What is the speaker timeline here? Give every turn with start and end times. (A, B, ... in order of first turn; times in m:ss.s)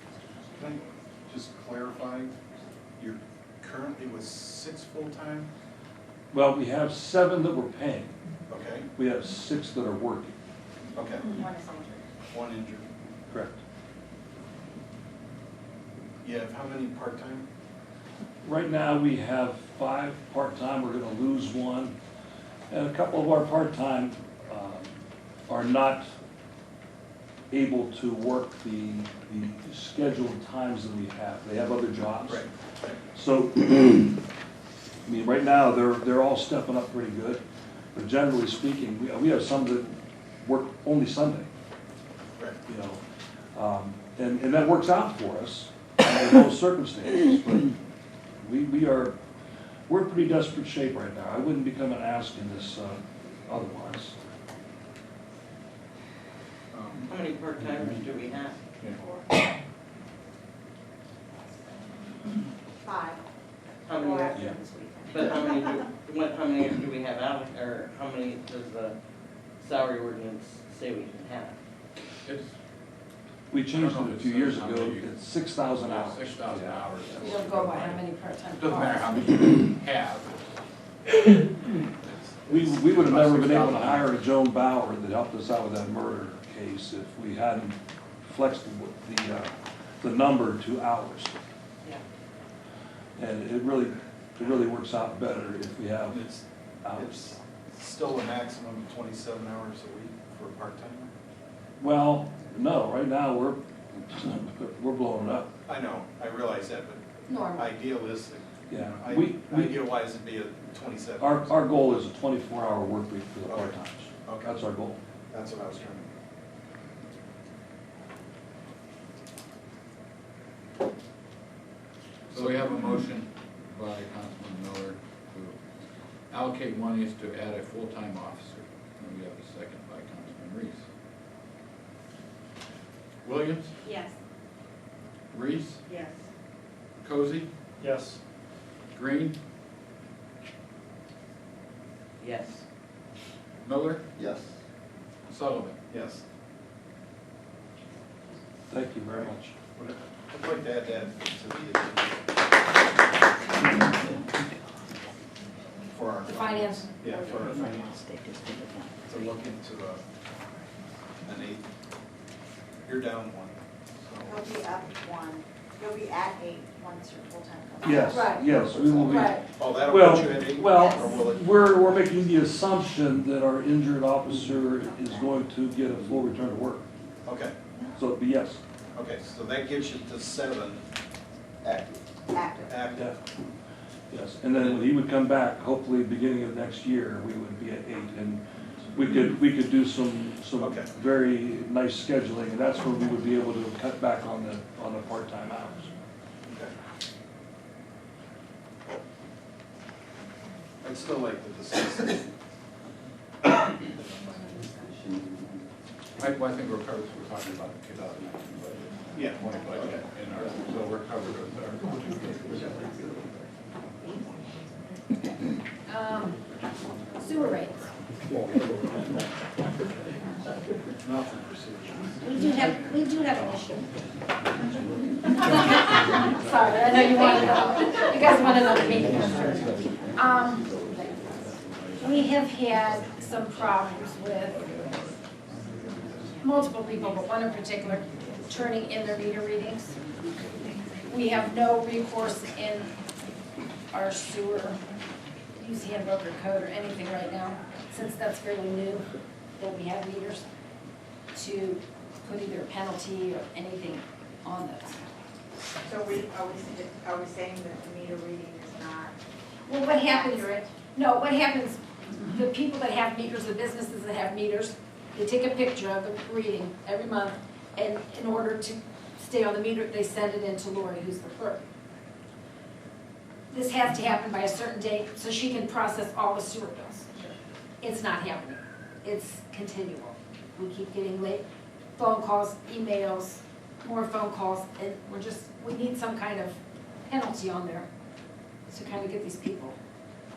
0:00.5-0:02.4 A
0:03.0-0:05.5 A
0:06.3-0:08.1 B
0:08.5-0:08.9 A
0:09.0-0:10.3 B
0:10.9-0:11.3 A
0:11.2-0:12.0 C
0:12.3-0:12.9 A
0:13.3-0:13.6 B
0:16.2-0:17.5 A
0:18.4-0:22.0 B
0:22.7-0:24.9 B
0:25.5-0:26.1 B
0:27.5-0:32.5 B
0:32.2-0:33.0 A
0:33.1-0:34.2 B
0:35.0-0:37.4 B
0:37.9-0:41.5 B
0:42.7-0:43.0 B
0:43.5-0:47.8 B
0:48.4-0:49.2 B
0:49.9-0:54.2 B
0:56.7-0:57.1 A
0:57.0-0:58.5 D
0:58.9-0:59.3 C
1:02.8-1:03.2 C
1:03.8-1:04.4 D
1:03.9-1:05.9 C
1:05.1-1:09.0 D
1:09.6-1:11.5 D
1:12.2-1:12.5 E
1:13.5-1:17.6 B
1:13.7-1:15.1 E
1:15.7-1:18.0 E
1:17.2-1:19.1 F
1:18.6-1:20.5 E
1:22.0-1:22.7 A
1:22.5-1:31.4 B
1:22.7-1:24.2 E
1:33.2-1:36.3 B
1:36.0-1:36.4 A
1:36.8-1:37.3 B
1:36.9-1:41.1 A
1:41.8-1:45.5 B
1:45.6-1:51.6 A
1:47.3-1:47.7 F
1:48.7-1:49.9 B
1:51.2-1:55.0 B
1:53.5-1:54.5 A
1:55.3-1:56.1 A
2:02.3-2:05.6 E
2:06.3-2:10.8 E
2:13.2-2:13.8 E
2:13.8-2:14.1 C
2:15.3-2:15.8 E
2:15.8-2:16.2 C
2:17.0-2:17.5 E
2:18.9-2:19.4 E
2:22.2-2:22.6 D
2:23.6-2:24.1 E
2:25.3-2:25.8 E
2:25.9-2:26.2 A
2:28.7-2:29.5 B
2:29.2-2:32.2 A
2:35.9-2:38.0 A
2:36.2-2:37.0 F
2:39.0-2:40.0 A
2:41.2-2:41.6 A
2:42.8-2:44.4 A
2:44.2-2:48.4 C
2:47.8-2:56.8 B
2:48.1-2:48.4 F
2:48.7-2:51.7 A
2:49.0-2:49.4 F
2:57.2-2:57.6 A
2:58.0-2:58.6 B
2:58.9-3:00.8 A
3:01.6-3:02.0 A
3:02.3-3:02.7 C
3:02.7-3:03.1 A
3:04.1-3:08.4 B
3:08.9-3:15.9 B
3:10.6-3:10.9 A
3:16.4-3:16.7 A
3:20.8-3:22.2 A
3:26.2-3:33.2 E
3:29.1-3:30.5 A
3:35.9-3:36.4 F
3:37.1-3:37.8 F
3:41.0-3:42.2 A
3:42.2-3:43.8 F
3:45.4-3:51.1 F
3:52.0-3:54.6 F
3:56.4-3:59.9 F
4:01.1-4:02.9 F
4:03.9-4:04.8 F
4:05.6-4:10.5 F
4:11.3-4:15.0 F
4:15.8-4:19.2 C
4:19.7-4:31.6 F
4:19.9-4:20.6 C
4:33.5-4:37.1 F
4:37.8-4:41.4 F
4:42.0-4:47.8 F
4:48.7-4:49.8 F